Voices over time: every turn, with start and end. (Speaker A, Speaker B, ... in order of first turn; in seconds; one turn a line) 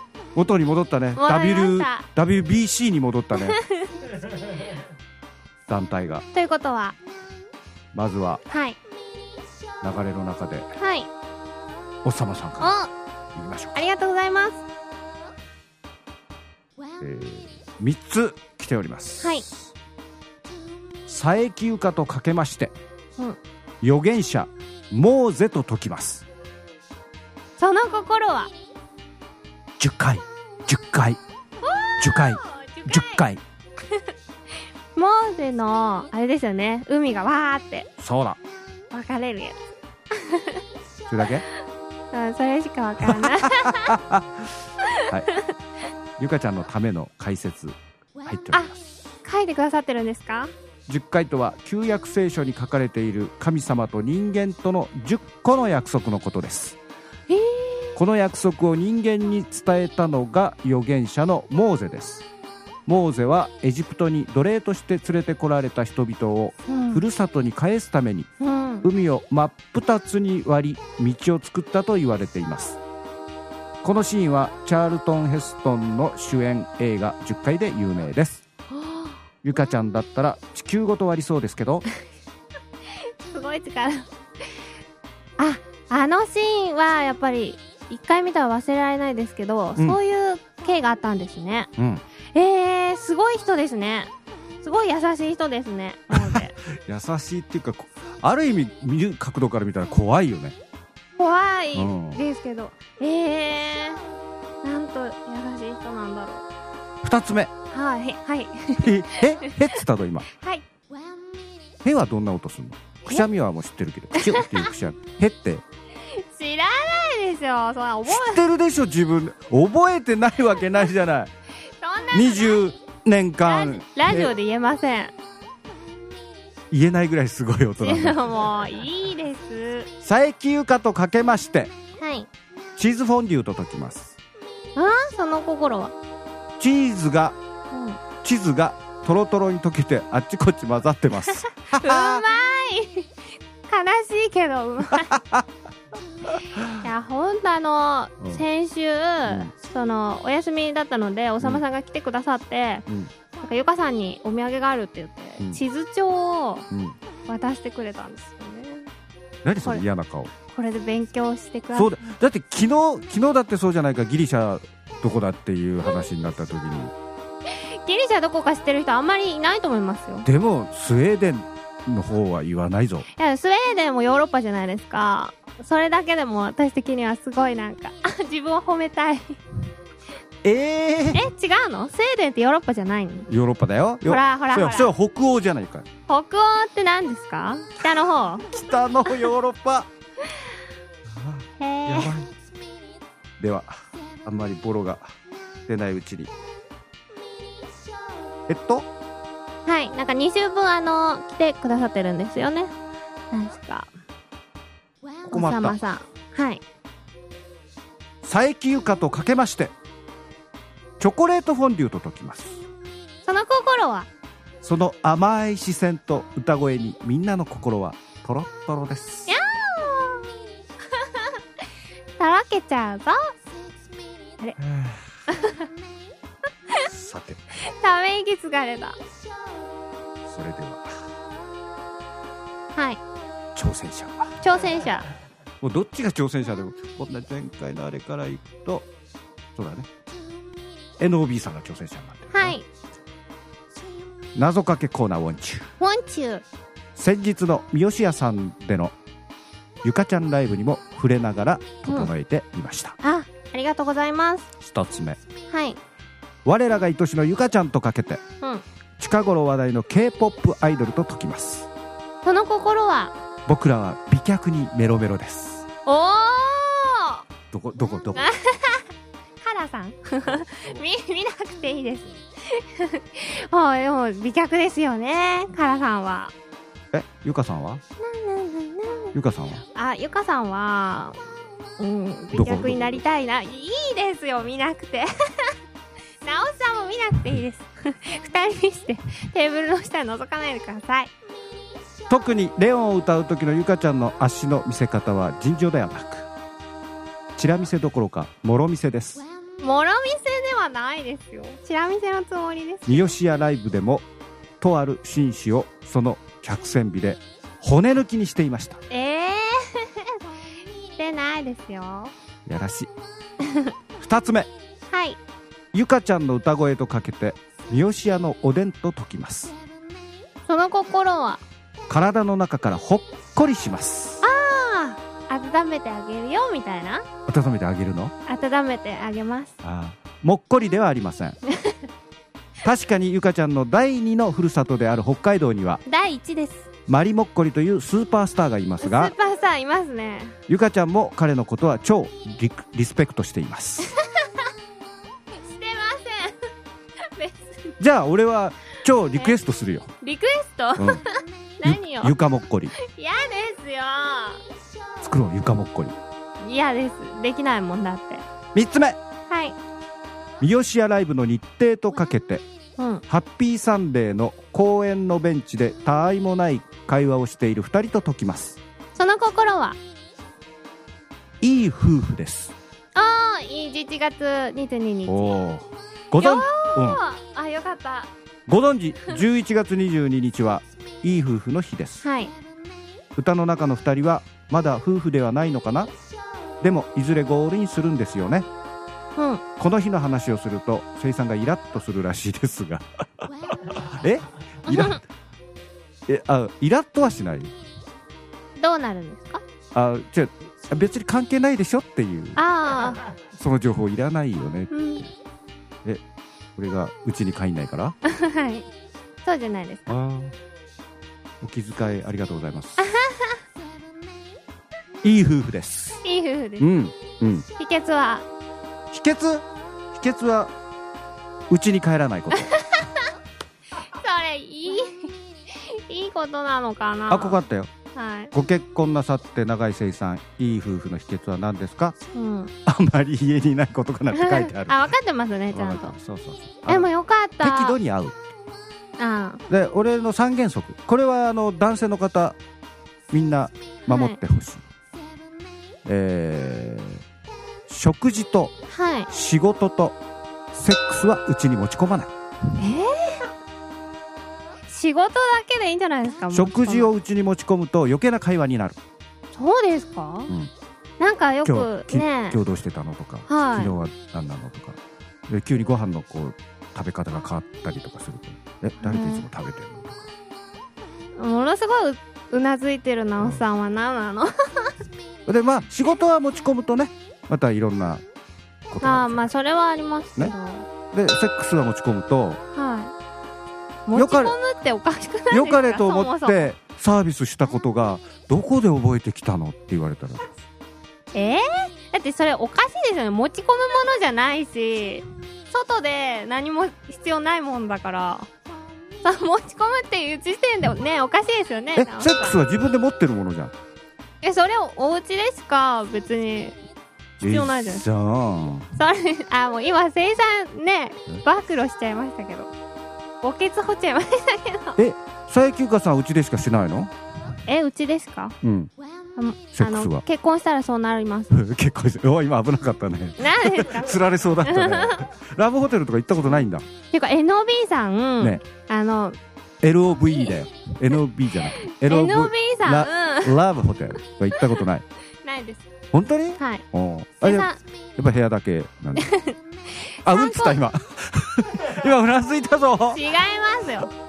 Speaker A: 0.3-3.6
Speaker B: 1.2-2.1
Speaker B: 3.4-3.9
Speaker A: 5.7-6.2
Speaker B: 6.3-7.0
Speaker A: 7.9-8.4
Speaker B: 8.5-8.8
Speaker A: 9.8-10.7
Speaker B: 10.8-11.1
Speaker A: 12.0-12.7
Speaker B: 12.6-12.9
Speaker A: 13.3-13.8
Speaker B: 13.8-14.6
Speaker A: 17.0-19.6
Speaker B: 19.2-19.5
Speaker A: 21.1-22.7
Speaker A: 23.8-26.2
Speaker B: 27.6-28.5
Speaker A: 29.8-31.2
Speaker B: 31.6-33.2
Speaker A: 32.0-33.4
Speaker B: 35.0-37.9
Speaker A: 38.0-38.4
Speaker B: 38.9-40.6
Speaker A: 41.1-41.4
Speaker B: 42.1-43.9
Speaker A: 43.0-44.5
Speaker B: 44.9-45.4
Speaker A: 46.2-49.0
Speaker B: 49.2-50.5
Speaker A: 50.9-56.8
Speaker B: 57.3-58.0
Speaker A: 58.0-62.2
Speaker A: 62.9-68.3
Speaker B: 66.7-67.0
Speaker B: 68.4-68.9
Speaker A: 68.8-72.8
Speaker A: 73.8-78.4
Speaker B: 78.7-79.2
Speaker A: 79.4-81.8
Speaker B: 83.3-84.1
Speaker B: 85.4-91.7
Speaker A: 91.8-92.0
Speaker B: 92.3-94.1
Speaker B: 94.6-96.5
Speaker A: 96.1-100.6
Speaker B: 101.2-104.0
Speaker A: 101.8-102.2
Speaker B: 104.6-106.5
Speaker A: 107.0-107.5
Speaker B: 107.7-109.7
Speaker A: 108.8-110.3
Speaker B: 110.4-110.7
Speaker A: 111.8-115.6
Speaker B: 114.2-114.7
Speaker B: 116.1-118.4
Speaker A: 118.1-121.3
Speaker B: 121.8-122.6
Speaker A: 122.1-124.3
Speaker B: 123.5-125.1
Speaker A: 126.7-128.6
Speaker B: 127.8-129.9
Speaker A: 130.0-131.7
Speaker B: 132.0-132.3
Speaker A: 132.8-134.2
Speaker B: 134.8-135.9
Speaker A: 136.6-137.4
Speaker B: 137.7-138.0
Speaker A: 138.2-142.2
Speaker B: 141.8-143.1
Speaker B: 143.7-145.1
Speaker A: 144.9-145.5
Speaker A: 146.3-146.8
Speaker B: 146.8-152.8
Speaker B: 153.4-156.7
Speaker A: 156.7-157.0
Speaker B: 157.3-158.9
Speaker A: 159.4-160.3
Speaker B: 160.5-162.0
Speaker A: 161.7-166.9
Speaker B: 167.7-170.3
Speaker A: 170.2-173.1
Speaker B: 173.2-179.4
Speaker A: 180.4-181.3
Speaker B: 181.1-183.3
Speaker A: 183.3-185.9
Speaker B: 184.0-184.9
Speaker B: 186.1-188.5
Speaker A: 188.5-189.9
Speaker A: 191.1-192.3
Speaker B: 191.6-192.2
Speaker A: 193.4-195.1
Speaker A: 195.7-196.3
Speaker A: 198.5-198.9
Speaker B: 199.7-202.7
Speaker B: 203.3-203.9
Speaker A: 205.2-205.8
Speaker B: 205.3-206.6
Speaker A: 208.2-209.7
Speaker A: 211.0-212.6
Speaker B: 213.2-214.1
Speaker A: 214.6-219.3
Speaker B: 219.3-220.3
Speaker B: 222.2-223.3
Speaker A: 224.6-225.0
Speaker B: 225.3-225.7
Speaker A: 226.9-227.4
Speaker B: 227.7-229.0
Speaker A: 230.2-230.9
Speaker B: 232.8-233.0
Speaker A: 233.6-234.4
Speaker B: 234.4-235.1
Speaker A: 235.6-238.9
Speaker A: 239.6-239.9
Speaker A: 241.0-242.6
Speaker B: 242.3-242.7
Speaker A: 244.3-245.7
Speaker B: 245.8-246.4
Speaker A: 247.0-248.9
Speaker A: 249.8-253.0
Speaker B: 253.0-254.5
Speaker A: 254.6-255.2
Speaker B: 255.5-255.8
Speaker A: 256.4-258.2
Speaker A: 259.0-261.7
Speaker B: 262.2-263.1
Speaker A: 263.5-265.6
Speaker B: 265.9-267.2
Speaker A: 267.5-268.3
Speaker B: 268.2-268.9
Speaker B: 269.4-276.3
Speaker A: 276.9-277.8
Speaker B: 278.0-279.2
Speaker A: 279.1-279.6
Speaker B: 279.8-281.2
Speaker B: 281.8-285.6
Speaker A: 282.3-283.0
Speaker B: 286.2-291.1
Speaker A: 292.1-296.3
Speaker A: 297.4-299.2
Speaker B: 299.6-303.0
Speaker A: 302.9-304.1
Speaker A: 304.6-308.8
Speaker B: 308.9-310.1
Speaker B: 311.0-312.1
Speaker A: 312.5-312.9
Speaker B: 313.4-313.7
Speaker A: 314.0-314.5
Speaker B: 314.9-315.2
Speaker A: 315.7-319.5
Speaker B: 320.5-321.4
Speaker A: 321.9-324.2
Speaker B: 324.2-327.1
Speaker A: 327.3-328.1
Speaker B: 328.3-329.5
Speaker A: 329.6-331.4
Speaker A: 332.6-335.8
Speaker B: 335.9-336.7
Speaker A: 336.9-339.1
Speaker B: 338.8-340.4
Speaker A: 340.5-343.9
Speaker B: 344.0-344.3
Speaker B: 345.4-346.4
Speaker B: 347.1-347.7
Speaker A: 347.8-349.9
Speaker B: 350.0-352.1
Speaker A: 350.8-351.0
Speaker A: 351.6-352.7
Speaker B: 352.8-354.4
Speaker A: 355.0-356.0
Speaker B: 356.4-358.2
Speaker A: 358.5-359.0
Speaker B: 359.3-359.6
Speaker A: 360.4-362.4
Speaker B: 362.8-363.0
Speaker A: 363.1-368.6
Speaker B: 369.0-369.8
Speaker A: 371.4-372.5
Speaker B: 372.9-375.4
Speaker A: 375.1-377.0
Speaker B: 376.2-378.1
Speaker A: 378.5-382.0
Speaker B: 382.0-382.3
Speaker A: 383.2-385.9
Speaker A: 386.6-388.5
Speaker B: 389.2-389.4
Speaker A: 389.6-395.0
Speaker B: 394.7-395.0
Speaker A: 396.1-397.5
Speaker B: 398.6-399.4
Speaker A: 399.7-402.4
Speaker B: 402.4-403.0
Speaker A: 403.3-405.1
Speaker B: 404.7-405.1
Speaker A: 406.6-408.0
Speaker B: 408.1-408.7
Speaker B: 409.2-409.9
Speaker A: 409.9-410.4
Speaker A: 411.4-412.8
Speaker B: 412.8-413.4
Speaker A: 415.0-416.0
Speaker B: 416.0-416.7
Speaker A: 416.6-417.5
Speaker B: 417.6-418.3
Speaker A: 418.9-420.5
Speaker A: 421.5-422.5
Speaker B: 422.5-423.0
Speaker B: 423.8-427.4
Speaker A: 427.1-427.7
Speaker B: 427.9-428.3
Speaker A: 428.3-432.0
Speaker B: 432.1-432.5
Speaker A: 432.6-434.9
Speaker B: 434.1-435.9
Speaker A: 435.5-436.9
Speaker B: 436.7-437.8
Speaker A: 437.4-438.2
Speaker B: 439.0-439.4
Speaker A: 439.5-442.4
Speaker A: 443.1-444.6
Speaker B: 443.9-444.2
Speaker A: 445.9-447.0
Speaker A: 447.7-448.5
Speaker B: 448.7-449.1
Speaker A: 449.1-450.0
Speaker A: 450.5-452.1
Speaker B: 452.6-453.2
Speaker B: 454.7-456.9
Speaker A: 456.3-458.8
Speaker B: 459.3-460.3
Speaker B: 461.0-462.4
Speaker A: 461.4-470.1
Speaker B: 463.3-463.8
Speaker B: 468.8-469.3
Speaker B: 471.2-474.7
Speaker A: 475.3-478.0
Speaker A: 478.7-479.3
Speaker B: 478.8-480.7
Speaker A: 480.9-482.4
Speaker B: 482.5-482.9
Speaker B: 483.9-486.5
Speaker A: 483.9-484.4
Speaker A: 485.3-490.3
Speaker B: 491.1-498.3
Speaker B: 499.0-502.4
Speaker A: 501.8-503.5
Speaker B: 504.2-506.6
Speaker A: 507.2-508.7
Speaker B: 507.3-507.8
Speaker B: 508.8-512.5
Speaker B: 513.2-514.8
Speaker A: 514.8-516.9
Speaker B: 517.5-518.4
Speaker A: 518.4-518.7
Speaker B: 519.2-521.4
Speaker A: 519.5-520.0
Speaker A: 521.3-526.6
Speaker B: 523.2-525.0
Speaker B: 526.9-529.2
Speaker A: 529.6-534.9
Speaker B: 531.6-533.4
Speaker B: 535.2-535.7
Speaker A: 535.9-539.0
Speaker B: 536.4-536.6
Speaker B: 537.2-537.6
Speaker B: 539.0-540.6
Speaker A: 540.0-543.0
Speaker B: 542.9-543.9